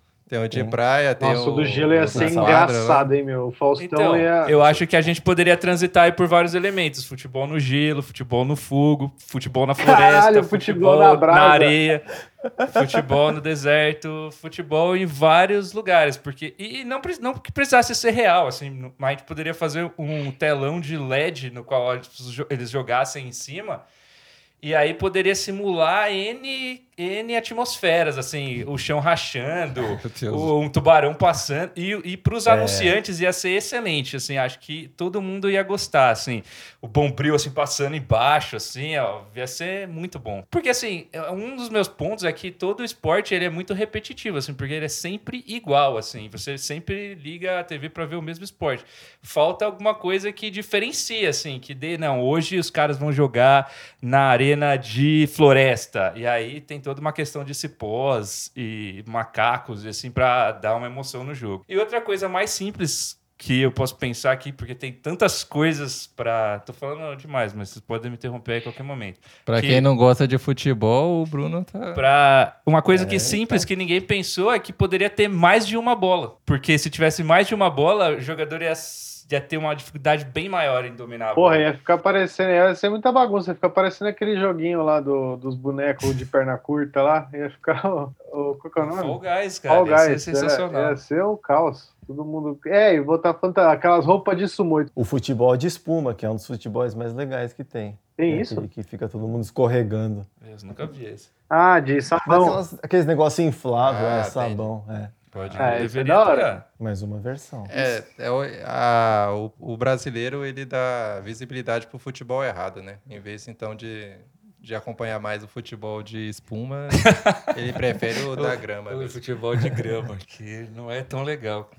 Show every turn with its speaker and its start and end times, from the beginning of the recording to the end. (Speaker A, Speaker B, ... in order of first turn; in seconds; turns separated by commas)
Speaker A: 0.3-3.1, Speaker B: 0.5-0.8, Speaker C: 1.2-4.5, Speaker B: 2.1-2.6, Speaker D: 3.8-12.0, Speaker C: 9.8-11.7, Speaker D: 12.6-23.8, Speaker D: 24.6-69.8, Speaker A: 29.9-30.5, Speaker A: 32.5-32.8, Speaker B: 32.6-32.9, Speaker A: 69.5-72.0, Speaker D: 71.9-81.6, Speaker B: 72.9-73.7, Speaker C: 81.3-89.2, Speaker D: 88.8-91.0, Speaker C: 89.7-94.9, Speaker B: 95.0-100.3, Speaker C: 98.2-98.6, Speaker D: 100.4-101.3, Speaker C: 101.5-102.6, Speaker B: 102.2-105.1, Speaker A: 103.8-104.7, Speaker A: 105.3-105.9, Speaker D: 105.4-106.6, Speaker C: 105.6-106.5, Speaker B: 106.8-107.8, Speaker A: 107.7-119.2, Speaker D: 117.0-117.4, Speaker D: 118.3-121.7